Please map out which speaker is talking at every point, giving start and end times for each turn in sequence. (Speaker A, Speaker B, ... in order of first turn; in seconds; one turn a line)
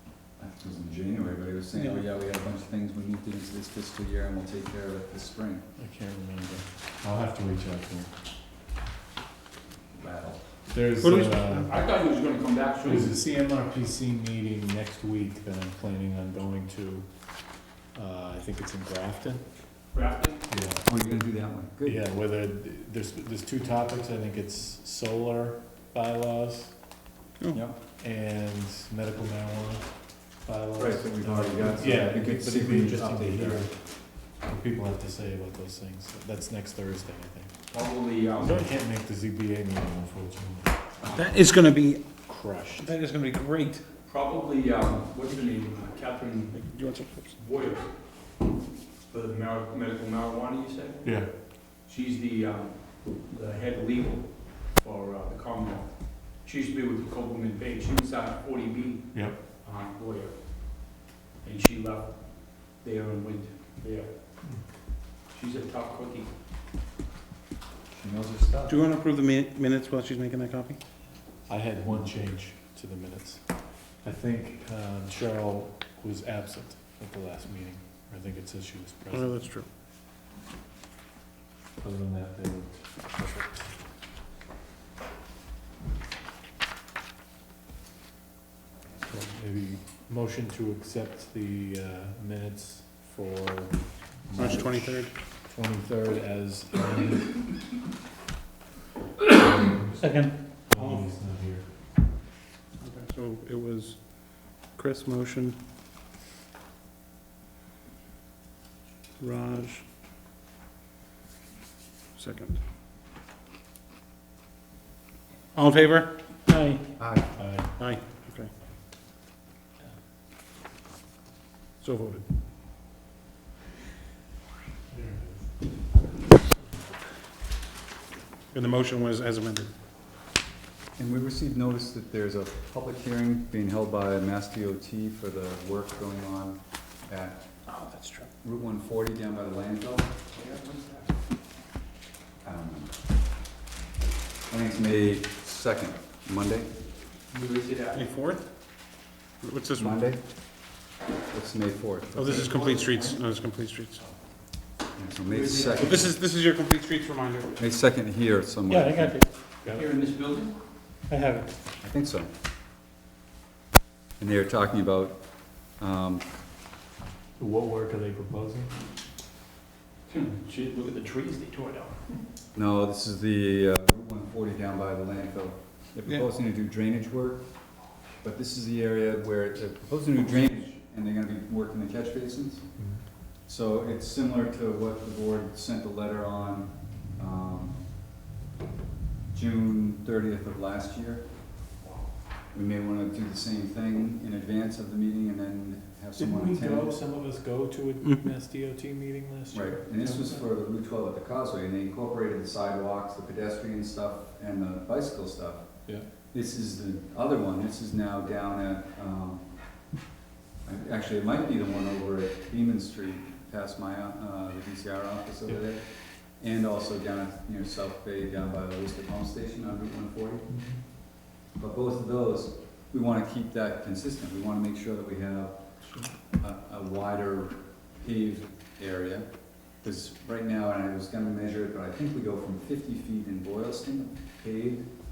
Speaker A: 0.4-5.6
Speaker B: 1.8-2.0
Speaker C: 5.8-8.1
Speaker A: 10.0-10.4
Speaker C: 10.7-11.7
Speaker B: 11.0-11.7
Speaker D: 11.6-13.1
Speaker C: 12.8-17.1
Speaker C: 17.9-19.5
Speaker D: 19.9-20.7
Speaker C: 20.5-20.8
Speaker A: 20.8-22.0
Speaker C: 21.8-26.8
Speaker C: 27.8-37.5
Speaker A: 30.8-33.7
Speaker D: 37.7-38.6
Speaker C: 38.4-41.0
Speaker B: 41.1-42.1
Speaker C: 42.3-42.9
Speaker B: 42.8-43.9
Speaker D: 43.9-47.9
Speaker B: 46.5-47.4
Speaker D: 49.1-51.3
Speaker C: 51.0-51.3
Speaker D: 51.8-64.5
Speaker C: 59.1-59.4
Speaker D: 65.3-66.3
Speaker A: 67.9-68.8
Speaker B: 68.7-70.8
Speaker C: 71.5-79.4
Speaker B: 79.1-79.7
Speaker C: 81.8-83.8
Speaker C: 89.1-97.6
Speaker B: 94.4-95.1
Speaker C: 99.2-101.8
Speaker B: 100.0-101.1
Speaker B: 102.9-105.6
Speaker B: 109.2-109.8
Speaker B: 112.2-112.6
Speaker B: 115.5-116.9
Speaker A: 117.0-117.4
Speaker C: 117.3-117.8
Speaker B: 117.8-118.5
Speaker B: 121.8-122.2
Speaker C: 124.9-125.8
Speaker B: 128.5-129.7
Speaker A: 131.0-137.4
Speaker B: 137.7-138.3
Speaker A: 138.4-140.1
Speaker D: 140.4-140.9
Speaker A: 142.4-142.9
Speaker A: 144.5-146.7
Speaker D: 147.3-148.0
Speaker B: 147.8-148.5
Speaker B: 149.4-150.0
Speaker A: 149.7-150.2
Speaker A: 151.3-152.5
Speaker B: 152.2-154.0
Speaker D: 152.3-153.2
Speaker A: 155.0-156.1
Speaker D: 155.3-156.2
Speaker B: 155.7-157.6
Speaker A: 157.6-159.2
Speaker B: 158.7-159.2
Speaker D: 159.6-160.5
Speaker B: 161.1-161.5
Speaker A: 161.8-162.3
Speaker A: 164.2-166.3
Speaker C: 167.4-168.7
Speaker D: 170.1-171.0
Speaker B: 170.6-171.8
Speaker A: 172.6-177.4
Speaker A: 178.2-182.7
Speaker C: 182.8-183.0
Speaker A: 183.5-187.8
Speaker A: 189.3-191.2
Speaker A: 192.5-196.9
Speaker C: 196.2-200.4
Speaker A: 199.5-205.8
Speaker A: 206.3-209.4
Speaker A: 210.7-220.5
Speaker C: 220.5-220.8
Speaker A: 221.6-225.6
Speaker C: 225.8-226.1
Speaker A: 226.4-234.9